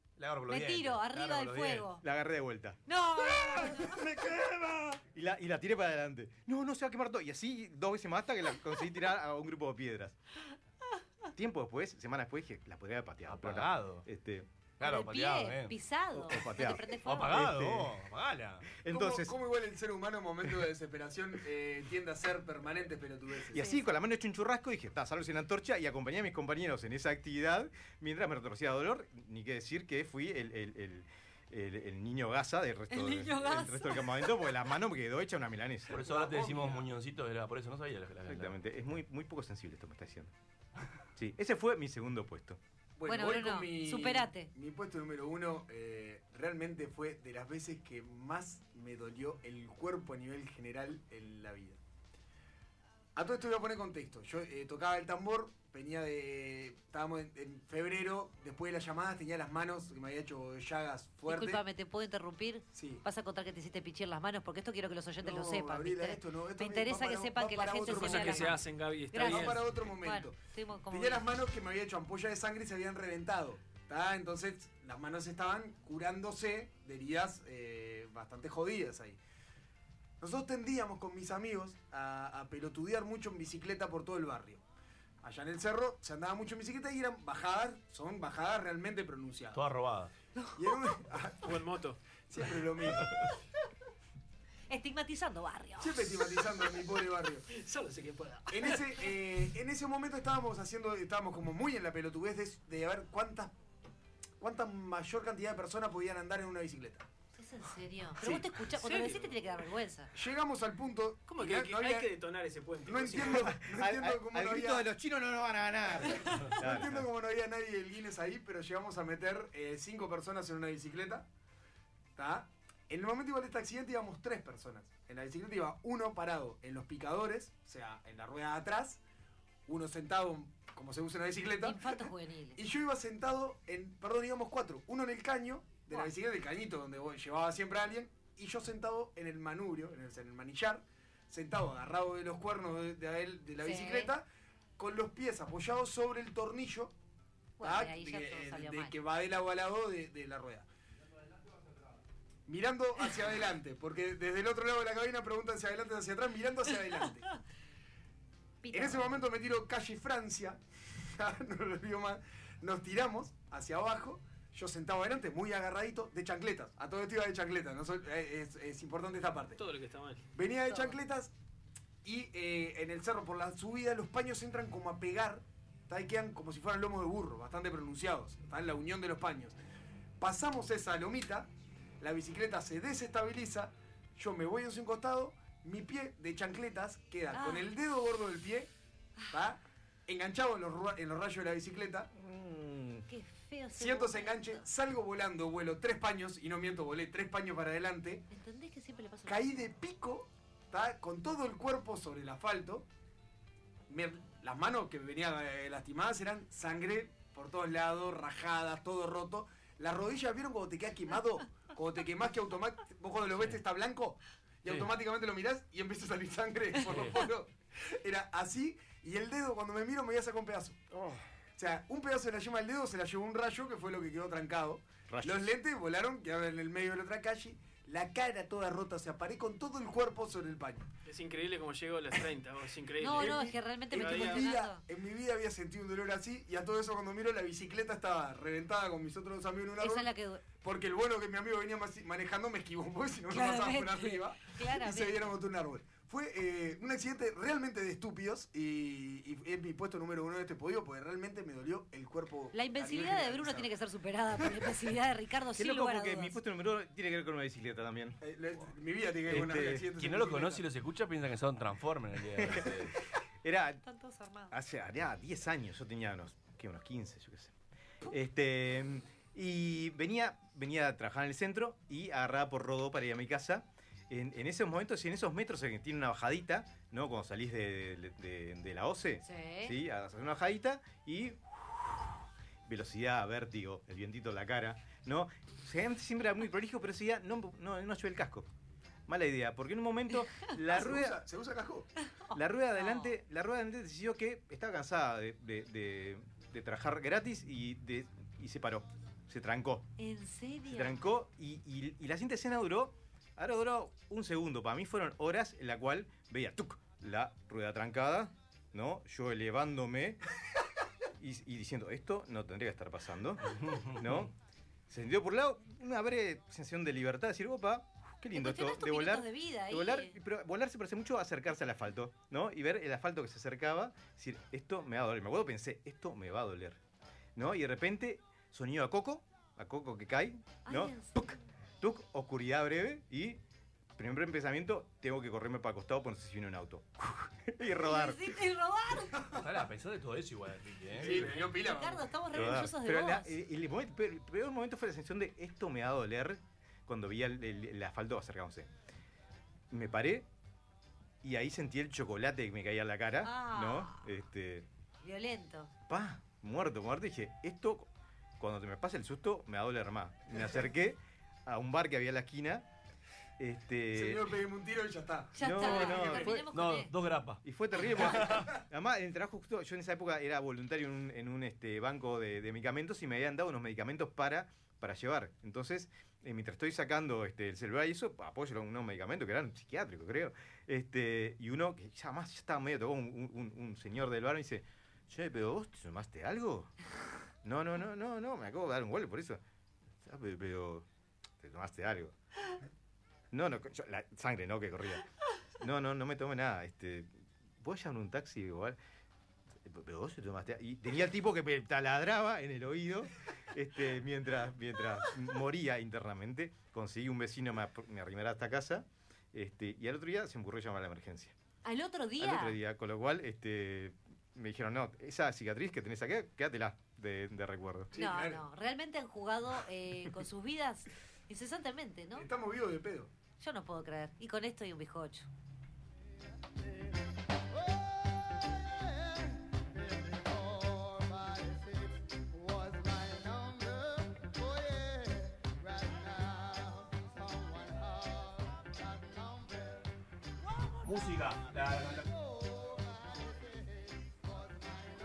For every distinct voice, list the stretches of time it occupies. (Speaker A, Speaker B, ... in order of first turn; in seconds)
Speaker A: 0.2-1.9, 13.2-14.0, 14.8-15.7, 17.0-18.7, 35.9-38.6, 89.5-90.1, 216.8-217.2, 260.0-263.0, 313.5-314.3, 339.3-341.4, 366.4-367.4, 368.0-368.5, 440.8-442.1
Speaker B: 0.5-2.0, 2.9-4.0, 14.8-17.4, 23.6-23.8, 32.9-34.2, 43.0-44.5, 61.3-68.6, 69.1-71.2, 94.7-96.0, 107.3-110.1, 131.6-132.6, 143.6-144.1, 147.6-148.9, 158.6-159.2, 170.7-171.0, 187.3-187.7, 193.1-194.7, 198.3-199.7, 233.0-234.8, 239.8-240.4, 243.3-245.3, 252.5-256.4, 263.8-264.5, 279.2-279.7, 292.1-293.1, 300.0-301.1, 318.3-320.2, 330.6-331.4, 337.8-339.3, 341.4-343.3, 353.2-354.1, 355.0-355.7, 365.3-366.9, 411.6-412.6, 417.9-422.3, 423.4-425.3
Speaker C: 2.0-10.2, 11.3-14.5, 16.1-17.9, 18.8-19.3, 23.5-36.0, 38.3-40.3, 41.1-42.6, 113.5-117.1, 192.1-193.1, 225.1-225.5, 255.5-258.2, 259.3-259.8, 263.4-263.8, 264.5-267.5, 268.1-282.1, 282.6-288.5, 289.1-291.2, 292.3-299.9, 300.7-310.2, 311.2-314.3, 314.9-326.8, 327.4-333.4, 333.9-338.3, 342.3-348.7, 349.7-350.3, 351.2-354.7, 355.9-362.6, 363.4-364.2, 365.4-366.5, 367.4-386.7, 387.4-389.4, 390.0-390.9, 391.4-392.1, 393.3-395.0, 395.6-398.8, 399.6-411.3, 412.2-417.9
Speaker D: 18.9-23.8, 35.9-36.8, 43.0-51.8, 53.1-61.6, 62.7-63.0, 65.2-68.6, 69.2-70.4, 70.9-79.2, 80.2-84.6, 85.2-89.6, 90.5-91.6, 92.3-93.1, 95.8-97.5, 98.5-103.5, 104.4-107.0, 108.2-108.5, 110.1-112.1, 112.8-114.9, 116.5-121.3, 122.2-129.0, 129.7-144.3, 144.8-146.9, 147.6-150.7, 152.5-157.2, 158.7-169.6, 170.3-171.3, 172.0-179.6, 180.2-188.7, 189.3-192.1, 193.7-198.2, 199.2-202.9, 203.9-220.8, 221.6-230.9, 233.1-253.7, 254.3-254.7, 258.2-260.6, 290.7-291.9, 341.0-342.1, 363.9-366.3, 367.9-368.4, 417.9-418.4, 422.1-423.1
Speaker E: 67.8-69.6, 91.4-92.0, 97.5-98.9, 108.7-109.3, 111.3-113.5, 169.6-170.3, 231.1-234.5